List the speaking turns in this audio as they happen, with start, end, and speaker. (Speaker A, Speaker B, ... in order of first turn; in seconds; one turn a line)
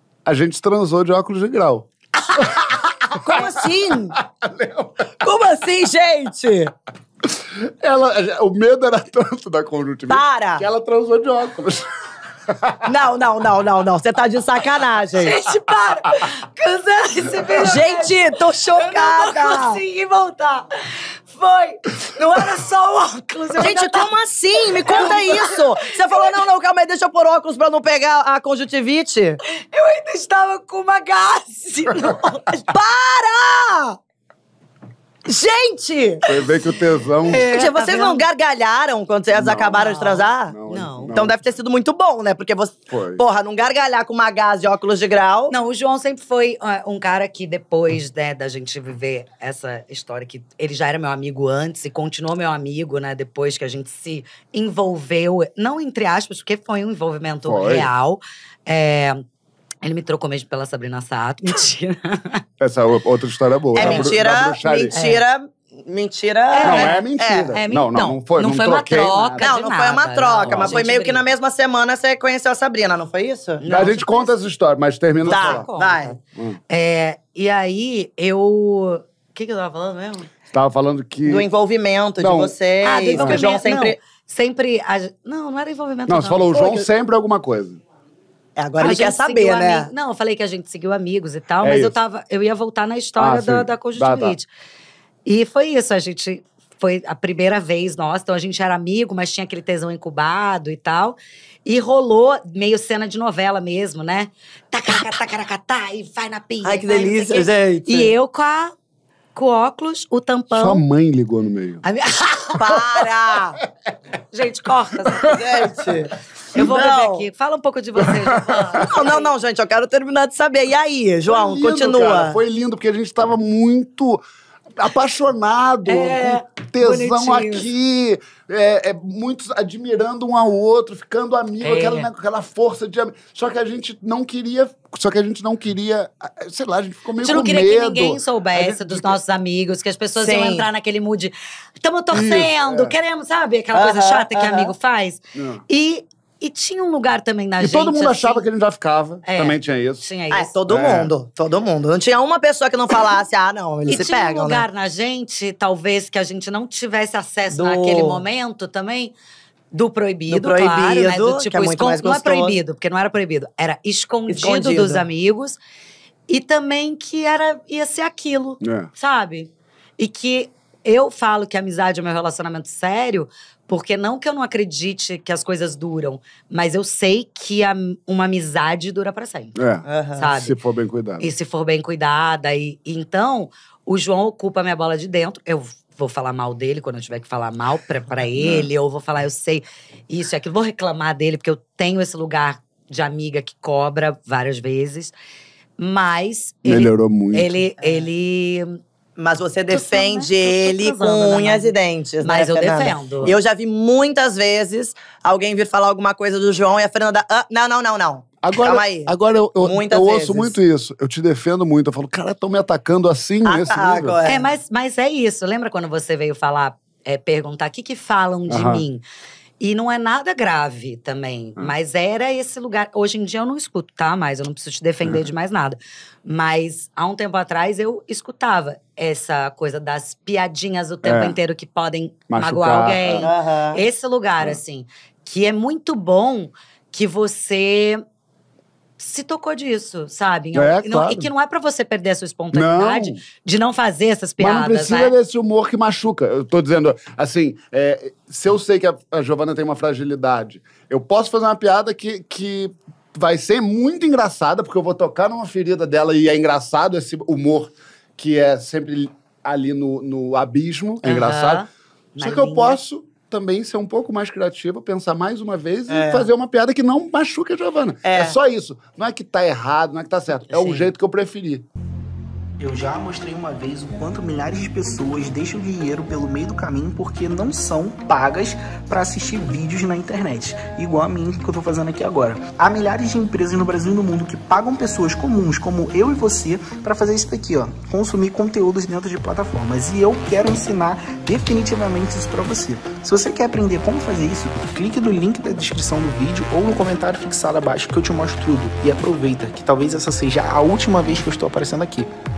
Speaker A: 0.2-3.6
Speaker B: 3.2-4.2
Speaker C: 3.3-3.6
Speaker A: 4.2-5.1
Speaker B: 5.2-6.7
Speaker A: 7.4-11.8
Speaker B: 10.1-10.7
Speaker A: 12.5-12.8
Speaker B: 12.8-15.3
Speaker C: 15.1-18.2
Speaker B: 17.6-19.8
Speaker C: 18.7-20.7
Speaker C: 21.3-24.1
Speaker B: 23.6-29.4
Speaker C: 24.6-26.4
Speaker C: 29.6-32.7
Speaker B: 32.7-34.0
Speaker B: 35.3-36.2
Speaker A: 36.3-37.5
Speaker C: 37.3-38.2
Speaker B: 37.3-40.5
Speaker A: 39.3-41.4
Speaker C: 39.7-41.2
Speaker B: 41.1-45.5
Speaker A: 42.9-43.2
Speaker C: 45.5-59.2
Speaker A: 57.5-57.9
Speaker C: 59.8-62.4
Speaker A: 62.6-64.9
Speaker B: 63.7-67.6
Speaker C: 63.8-64.1
Speaker C: 64.9-65.2
Speaker C: 66.5-67.0
Speaker A: 66.6-69.5
Speaker C: 67.5-71.3
Speaker B: 69.4-73.6
Speaker A: 70.4-70.8
Speaker C: 73.6-74.4
Speaker A: 73.7-75.7
Speaker C: 75.2-76.2
Speaker B: 75.3-76.2
Speaker C: 76.7-79.8
Speaker B: 79.7-80.2
Speaker A: 80.5-81.5
Speaker B: 81.3-84.0
Speaker A: 82.2-82.5
Speaker C: 82.8-86.5
Speaker A: 83.2-83.4
Speaker A: 86.1-87.8
Speaker B: 86.5-86.9
Speaker B: 88.6-89.9
Speaker C: 88.8-94.5
Speaker A: 91.6-92.0
Speaker A: 93.2-94.4
Speaker C: 95.3-108.7
Speaker B: 106.6-108.1
Speaker C: 109.3-110.8
Speaker A: 110.5-111.8
Speaker C: 111.8-112.8
Speaker B: 112.6-113.6
Speaker C: 114.3-115.3
Speaker B: 115.3-117.3
Speaker C: 116.5-119.3
Speaker A: 118.0-118.8
Speaker B: 118.8-122.4
Speaker A: 121.3-124.2
Speaker A: 124.8-139.2
Speaker C: 125.9-127.7
Speaker C: 131.6-132.1
Speaker C: 137.2-148.5
Speaker B: 140.2-140.7
Speaker A: 142.1-143.0
Speaker B: 143.7-144.7
Speaker A: 145.3-145.6
Speaker A: 147.6-150.1
Speaker C: 149.2-150.5
Speaker B: 150.3-154.7
Speaker A: 150.7-151.1
Speaker C: 153.9-159.1
Speaker B: 157.5-158.2
Speaker C: 159.7-165.6
Speaker B: 160.3-162.6
Speaker B: 164.3-165.0
Speaker C: 166.3-179.6
Speaker A: 168.6-168.9
Speaker A: 179.6-181.3
Speaker B: 179.8-180.3
Speaker C: 180.2-180.6
Speaker C: 181.2-195.1
Speaker A: 188.4-188.7
Speaker C: 195.8-198.8
Speaker A: 196.7-197.6
Speaker B: 199.2-210.6
Speaker C: 199.7-203.3
Speaker A: 208.4-214.2
Speaker B: 213.4-214.5
Speaker C: 214.2-219.0
Speaker A: 218.5-218.8
Speaker C: 219.6-238.0
Speaker A: 231.0-231.4
Speaker A: 232.3-233.3
Speaker B: 233.2-233.8
Speaker C: 239.0-245.2
Speaker A: 240.6-241.3
Speaker A: 242.5-243.2
Speaker A: 244.4-261.6
Speaker C: 261.0-262.8
Speaker A: 262.2-271.6
Speaker B: 265.9-266.3
Speaker B: 268.0-268.4
Speaker C: 270.5-270.9
Speaker D: 272.6-302.1